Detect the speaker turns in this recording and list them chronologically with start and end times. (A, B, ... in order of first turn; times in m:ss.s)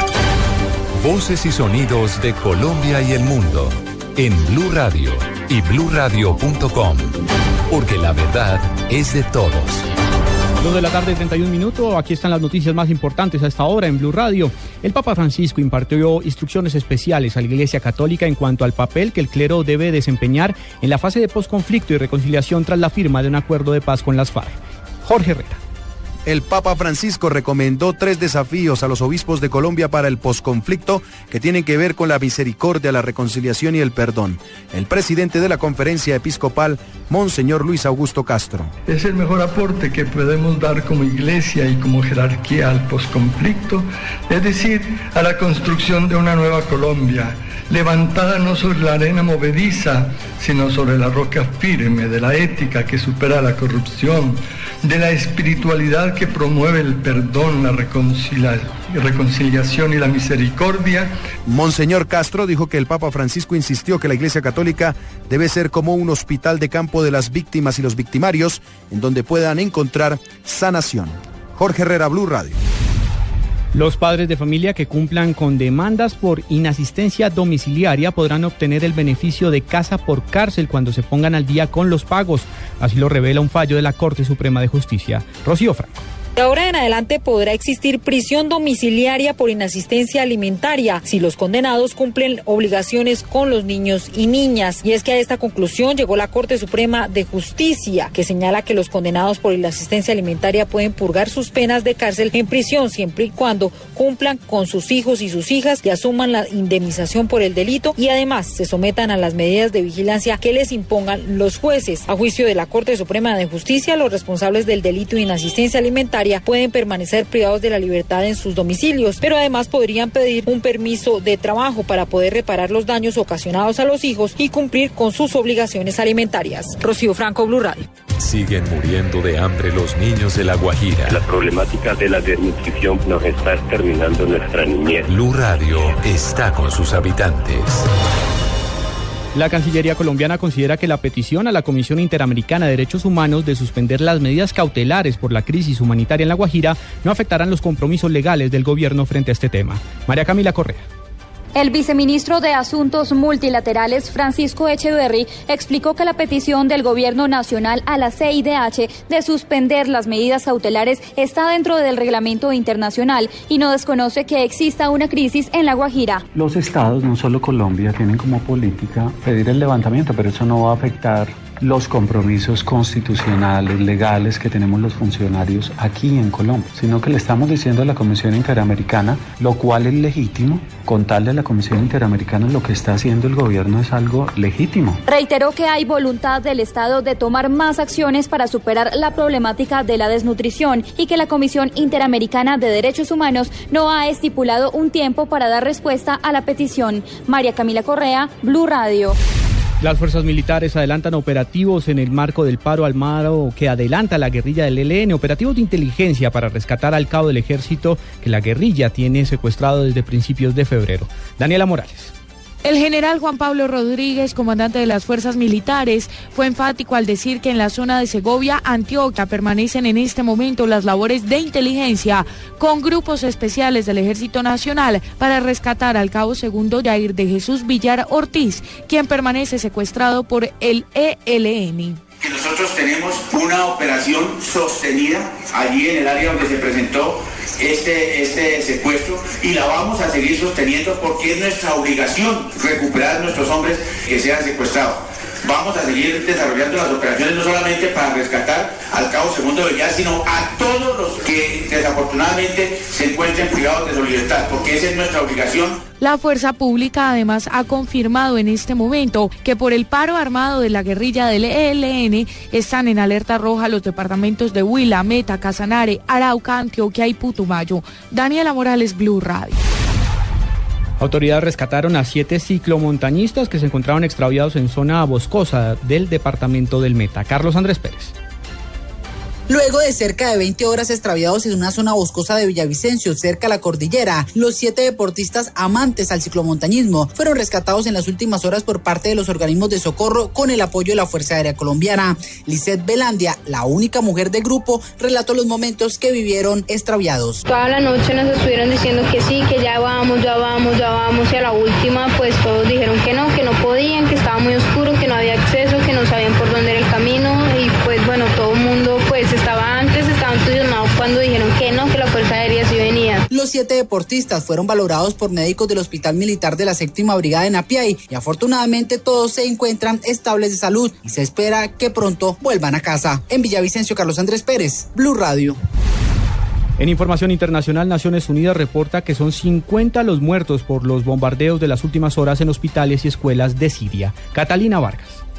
0:01.0-0:07.1 A
0:07.7-0:09.7 A
0:10.6-0:25.6 B
0:26.2-0:38.7 C
0:38.9-1:01.1 D
1:01.5-1:12.6 C
1:13.7-1:26.0 B
1:26.4-2:07.9 E
2:08.2-2:11.1 A
2:11.0-2:15.2 F
2:15.2-2:17.6 A
2:19.3-2:30.8 B
2:31.5-2:46.2 G
2:46.3-3:05.0 H
3:05.1-3:19.2 G
3:19.8-3:32.1 B
3:32.6-3:52.0 I
3:52.2-4:15.8 J
4:16.0-4:29.6 I
4:31.0-4:38.1 B
4:39.5-4:57.4 K
4:57.5-5:13.2 L
5:13.3-5:25.6 K
5:26.8-5:35.2 B